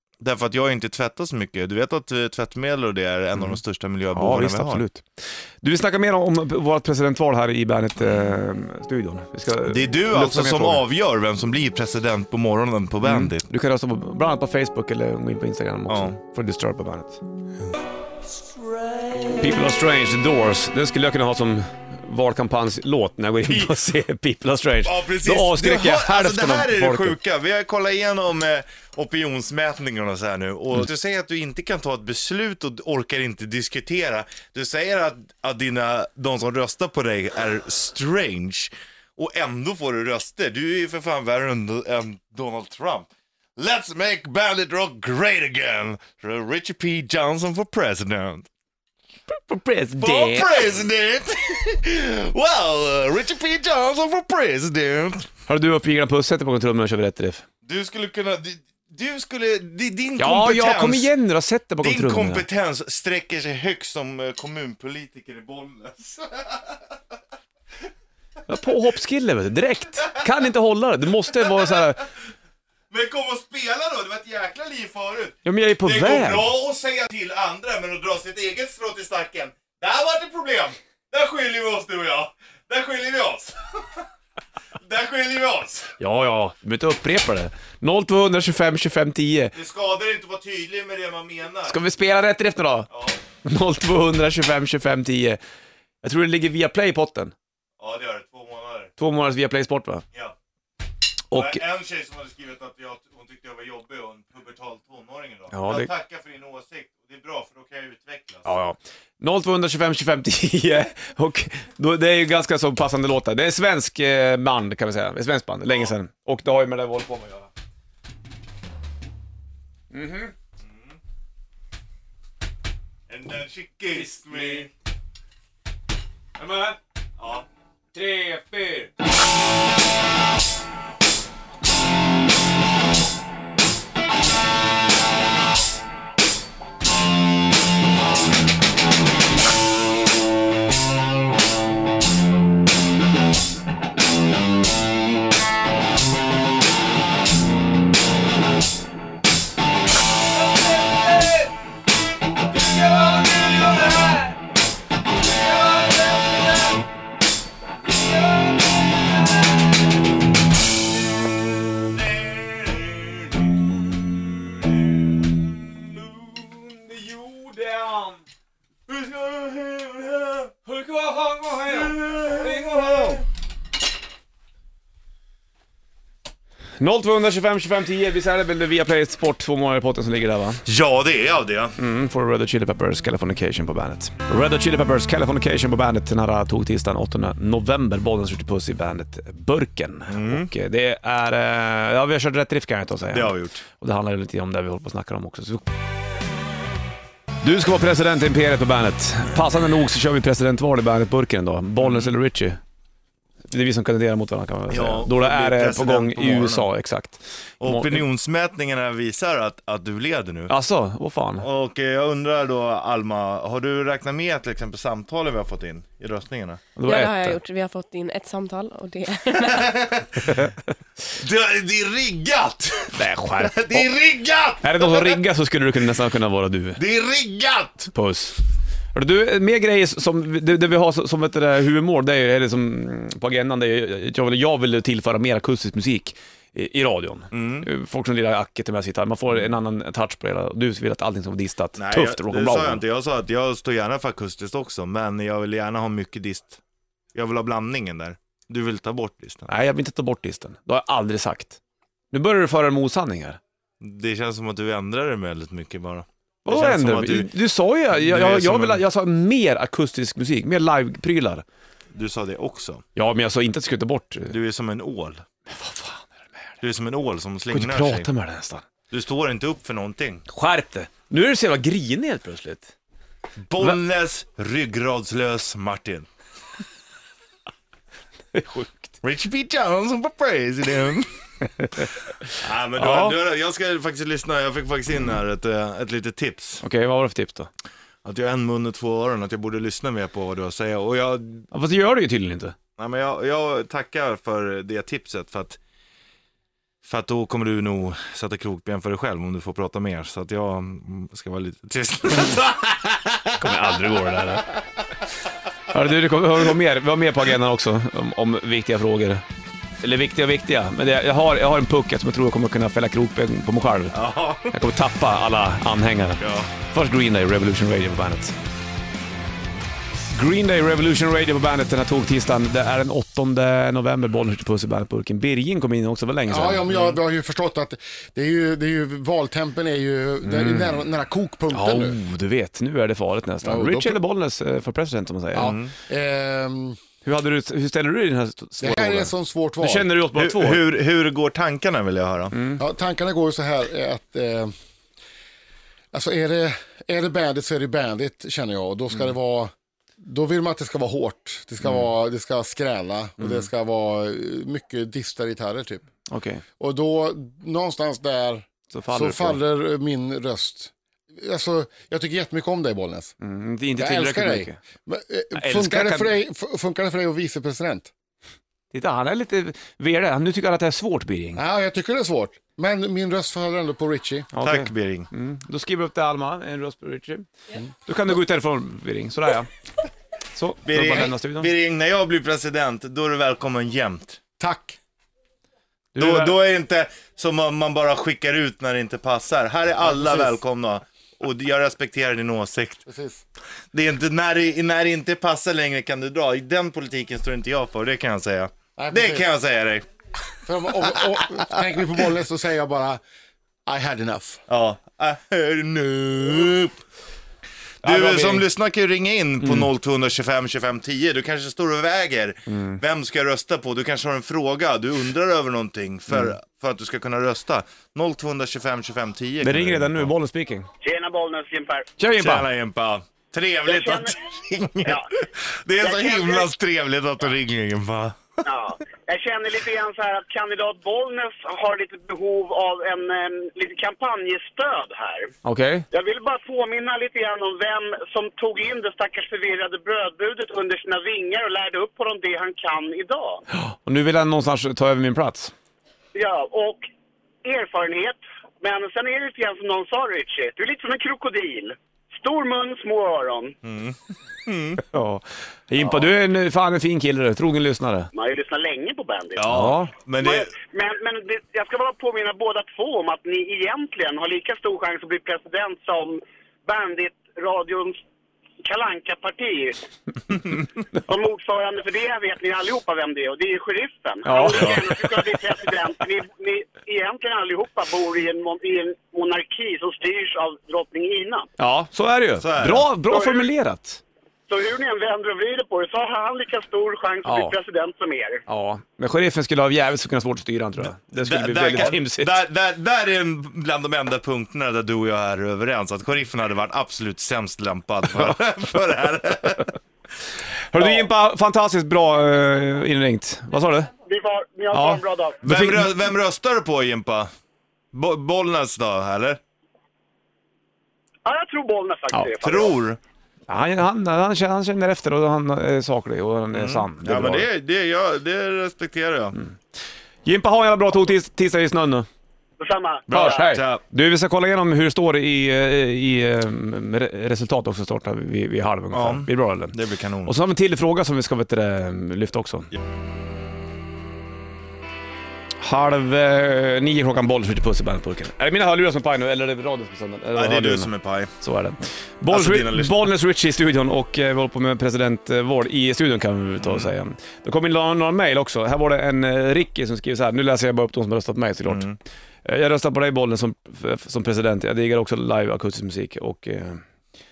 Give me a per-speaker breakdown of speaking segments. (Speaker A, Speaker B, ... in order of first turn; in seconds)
Speaker A: 0.2-4.8, 8.0-8.3, 9.6-13.5, 15.9-16.2, 23.4-23.8, 24.8-48.5, 50.0-55.3, 57.6-61.1, 61.8-67.0, 71.3-71.8, 72.9-84.1, 84.8-86.0, 89.5-91.8, 92.9-93.2, 97.8-98.9, 101.3-108.5, 120.6-121.0, 123.1-124.7, 127.2-127.5, 161.9-163.4, 168.9-170.5, 171.7-172.9, 180.7-181.8, 190.1-190.5, 193.1-193.6, 201.8-202.1, 204.7-206.7, 207.6-210.5, 211.4-216.6, 219.3-220.4, 221.1-225.2, 226.8-227.9, 237.3-237.7, 241.8-246.6, 247.1-249.5, 253.8-257.3, 257.9-258.8, 261.9-262.8, 264.3-265.3, 266.6-268.1, 268.9-270.3, 273.4-276.1, 279.0-281.2, 282.3-286.6, 288.0-291.5, 292.8-295.6, 296.8-303.6, 313.9-314.6, 316.2-316.5, 335.4-335.7, 340.1-342.4, 374.4-375.1, 380.6-384.2, 386.0-392.9, 393.7-399.9, 404.5-406.8, 407.8-420.1, 422.2-428.4, 453.6-454.8, 459.4-460.5, 482.4-482.9, 491.1-499.7, 505.4-507.3, 507.9-509.4, 512.4-513.0, 516.5-519.4, 523.1-523.8, 528.9-530.4, 540.4-541.3, 542.3-543.1, 546.6-546.9, 551.7-552.0
Speaker B: 4.1-5.0, 5.6-10.8, 13.0-17.2, 19.3-27.2, 49.3-50.6, 55.5-57.5, 60.2-62.5, 68.5-72.1, 75.5-76.5, 86.0-89.5, 91.7-92.9, 93.4-95.4, 96.0-97.3, 99.0-100.0, 101.3-101.6, 105.5-105.9, 108.5-117.5, 119.9-120.3, 123.9-124.7, 126.4-126.8, 127.9-128.9, 150.5-151.5, 152.5-154.4, 155.5-156.7, 157.9-159.1, 165.5-168.2, 170.6-173.2, 176.8-180.6, 181.8-195.7, 197.4-202.6, 203.5-208.1, 210.5-211.5, 216.8-217.4, 220.3-220.5, 222.9-223.9, 224.6-226.8, 227.9-228.4, 228.9-242.8, 249.5-251.6, 252.1-253.4, 256.4-261.4, 262.9-264.3, 265.5-266.5, 267.5-268.6, 270.3-272.7, 278.3-278.9, 282.8-283.2, 286.6-287.5, 291.5-292.6, 303.4-304.5, 305.7-309.2, 309.8-318.4, 320.1-327.0, 330.2-330.8, 331.5-335.5, 337.0-340.6, 342.3-342.6, 353.2-353.5, 356.1-356.4, 358.7-359.4, 363.2-364.6, 365.4-366.1, 368.7-371.4, 374.3-377.3, 377.9-379.5, 380.3-381.5, 385.9-386.4, 407.8-408.5, 409.4-409.7, 412.5-412.8, 419.4-420.7, 422.0-422.5, 435.4-435.9, 443.5-445.5, 454.8-458.1, 459.5-459.9, 474.2-475.2, 481.6-484.0, 487.2-487.6, 488.5-492.4, 500.7-503.9, 504.7-505.9, 513.5-517.5, 520.2-522.1, 523.1-532.7, 535.6-551.9, 552.5-556.8
Speaker C: 216.9-219.8
Speaker D: 326.3-332.0, 333.4-334.0, 335.4-336.8, 338.6-339.9, 342.6-344.5, 345.9-349.5, 350.0-355.9, 356.6-363.1, 363.8-367.9, 371.4-374.3, 384.4-384.8, 389.9-390.3, 392.9-393.2, 398.8-399.2, 400.5-403.0, 403.7-404.4
Speaker E: 420.8-421.9, 423.7-424.1, 424.8-425.1, 425.8-426.5, 428.4-435.3, 435.9-443.4, 446.1-446.9, 447.4-453.6, 458.1-459.4, 460.2-468.0, 468.6-469.8, 471.1-481.5, 483.1-483.5, 484.5-488.4, 504.1-505.4, 511.2-512.7, 522.6-523.5